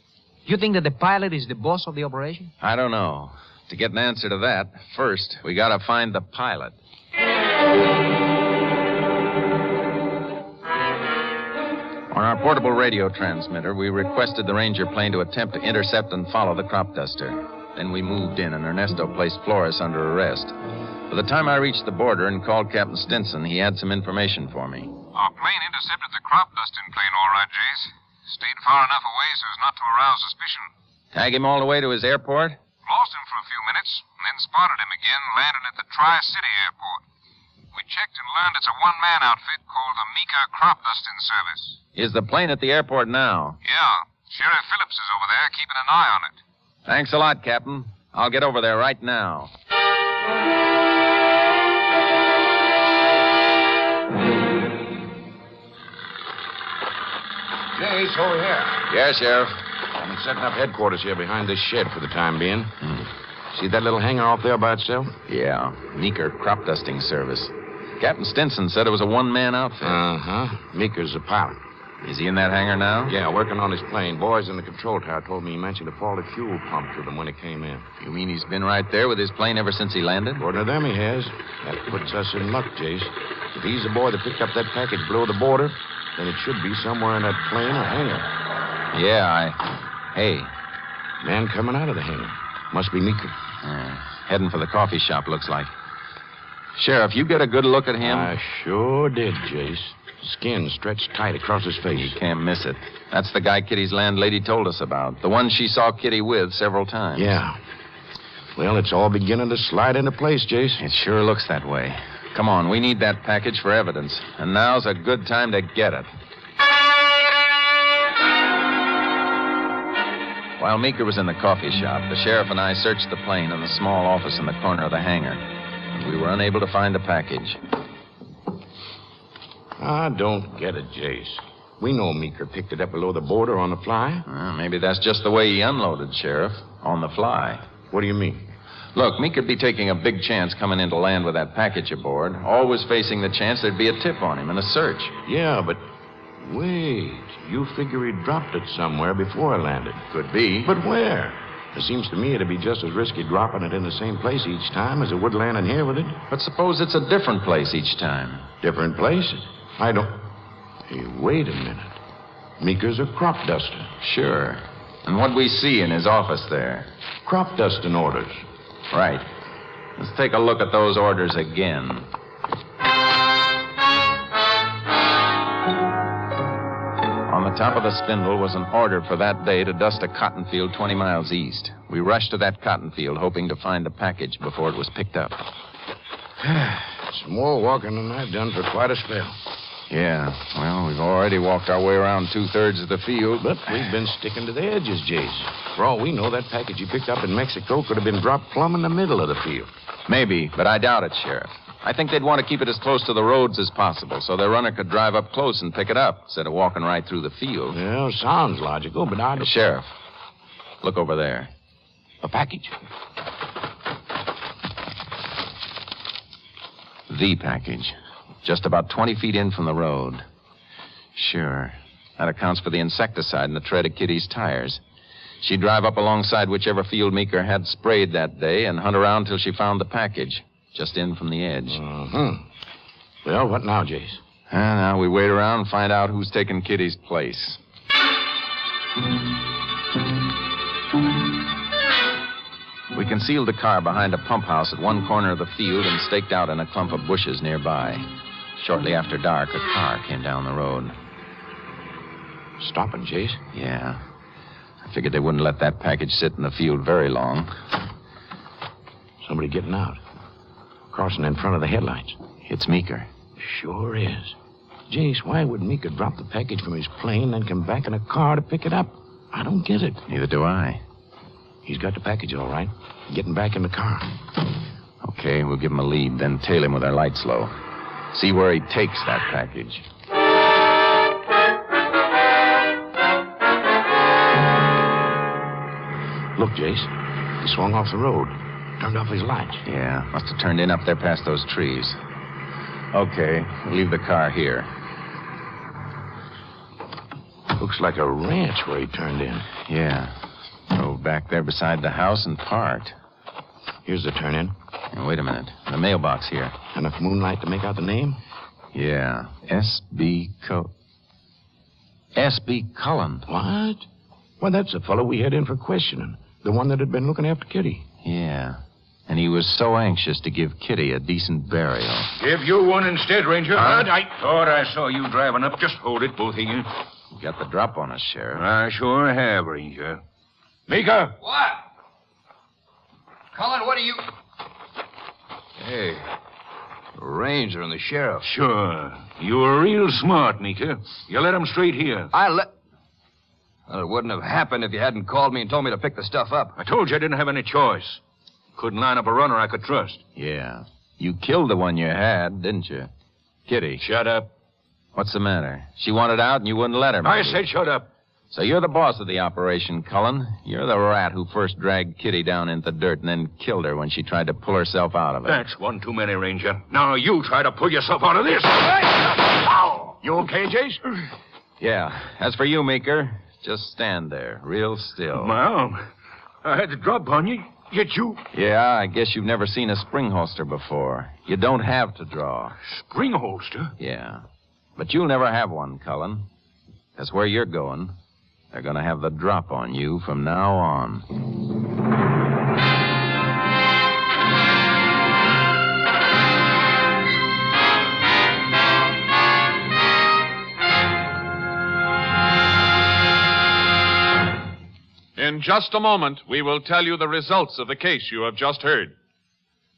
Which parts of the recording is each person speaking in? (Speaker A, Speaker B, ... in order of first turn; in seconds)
Speaker A: 0.5-2.5
Speaker B: 2.6-6.8, 12.1-20.5, 21.1-25.0, 31.1-32.6, 41.9-43.6, 46.9-49.5, 58.9-59.6, 65.3-70.0, 72.0-73.1, 78.0-80.5, 88.9-89.6, 90.1-90.5, 93.6-95.7, 96.7-98.3, 101.9-107.4, 110.8-116.1, 120.6-127.6, 134.2-137.7, 138.9-145.2, 150.1-150.7, 156.3-158.5, 164.0-166.9, 168.9-169.3, 170.0-172.1, 177.3-185.5, 189.9-193.6, 200.1-207.8, 209.4-209.9, 210.8-211.5, 217.1-220.2, 221.1-224.8, 225.4-231.8, 234.5-237.6, 242.9-250.9, 253.5-254.0, 254.8-257.5, 262.4-263.1, 270.1-270.8, 275.0-277.5, 278.1-279.9, 289.6-292.0, 292.9-294.7, 299.6-300.2, 300.7-302.9, 304.9-306.6, 308.7-310.7, 312.1-313.3, 318.0-322.1, 327.1-328.4, 350.1-352.9, 353.5-353.8, 354.9-357.4, 358.3-365.4, 371.6-375.3, 378.3-382.6, 383.8-384.2, 384.8-386.3, 386.9-387.9, 388.5-391.1
Speaker C: 25.1-30.7, 32.9-37.0, 37.7-41.8, 43.6-46.4
Speaker D: 57.7-58.8, 322.2-326.7, 328.3-330.0, 330.7-331.1, 338.2-342.1, 346.6-348.0, 348.6-350.0, 353.8-354.3, 357.0-357.9, 365.2-371.1, 375.1-375.8, 376.4-378.2, 382.7-383.7
Speaker E: 59.9-62.7, 63.5-65.1, 69.8-71.6, 73.1-77.8, 80.4-88.3, 91.2-93.3, 98.0-102.2, 107.1-107.6, 108.5-110.8, 129.8-134.2, 137.9-138.4, 145.2-145.8, 146.4-150.0, 150.6-156.2, 158.6-160.2, 160.9-162.0, 162.6-163.9, 167.2-168.4, 186.4-189.4, 193.4-199.7, 207.7-209.5, 212.2-212.7, 231.7-232.4, 233.2-234.2, 252.6-253.4, 259.2-260.0, 260.9-262.2, 263.4-264.3, 264.9-270.0, 271.6-274.1, 286.4-286.9, 287.4-289.6, 297.6-299.5, 303.9-304.5, 306.7-308.2, 313.3-313.8, 314.4-317.9
Speaker F: 331.2-331.6, 333.3-334.0, 335.6-336.0, 336.9-338.2, 342.1-342.5, 343.7-346.6
Speaker G: 405.1-408.9